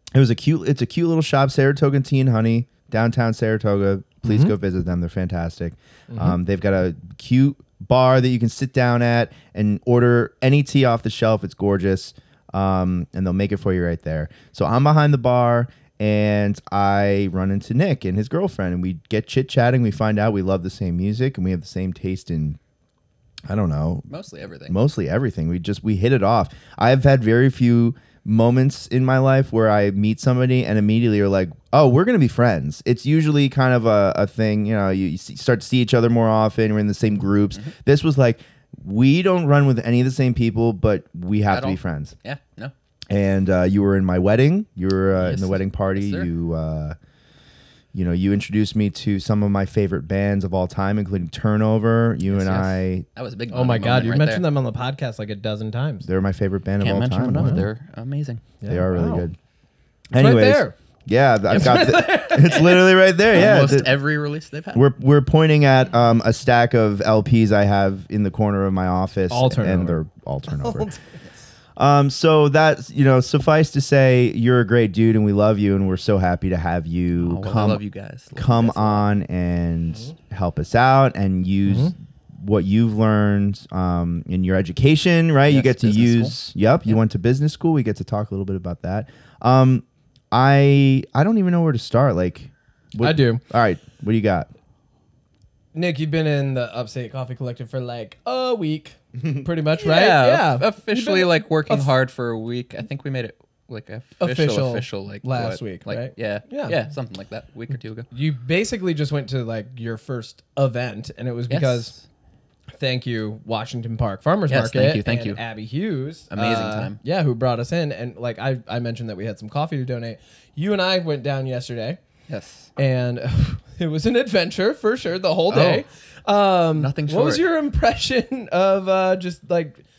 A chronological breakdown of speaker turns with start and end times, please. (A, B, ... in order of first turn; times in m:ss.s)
0:00.1-0:22.6 A
0:04.2-0:04.5 B
0:06.1-0:06.4 B
0:23.5-0:24.1 A
0:24.1-0:24.8 C
0:24.7-0:42.1 A
0:41.5-0:42.7 C
0:43.1-0:47.0 A
0:45.2-0:46.3 C
0:47.9-0:53.0 A
0:52.3-0:54.4 C
0:53.5-0:56.1 B
0:56.0-0:57.6 A
0:56.8-0:58.5 C
0:58.6-0:59.3 B
0:58.7-0:59.4 A
1:00.1-1:04.0 A
1:00.2-1:00.7 B
1:01.5-1:03.0 B
1:03.3-1:04.8 C
1:04.7-1:10.9 A
1:09.3-1:11.1 B
1:11.8-1:17.8 A
1:17.2-1:19.1 C
1:18.4-1:34.5 A
1:25.5-1:26.4 C
1:33.0-1:33.4 B
1:35.7-1:41.9 B
1:39.8-1:48.1 C
1:44.2-1:46.8 B
1:48.1-1:52.0 B
1:51.5-1:52.0 C
1:52.8-2:02.0 B
1:54.5-1:55.4 C
1:56.3-1:57.0 C
2:02.3-2:02.7 C
2:02.8-2:09.8 B
2:05.5-2:05.9 C
2:06.8-2:07.4 C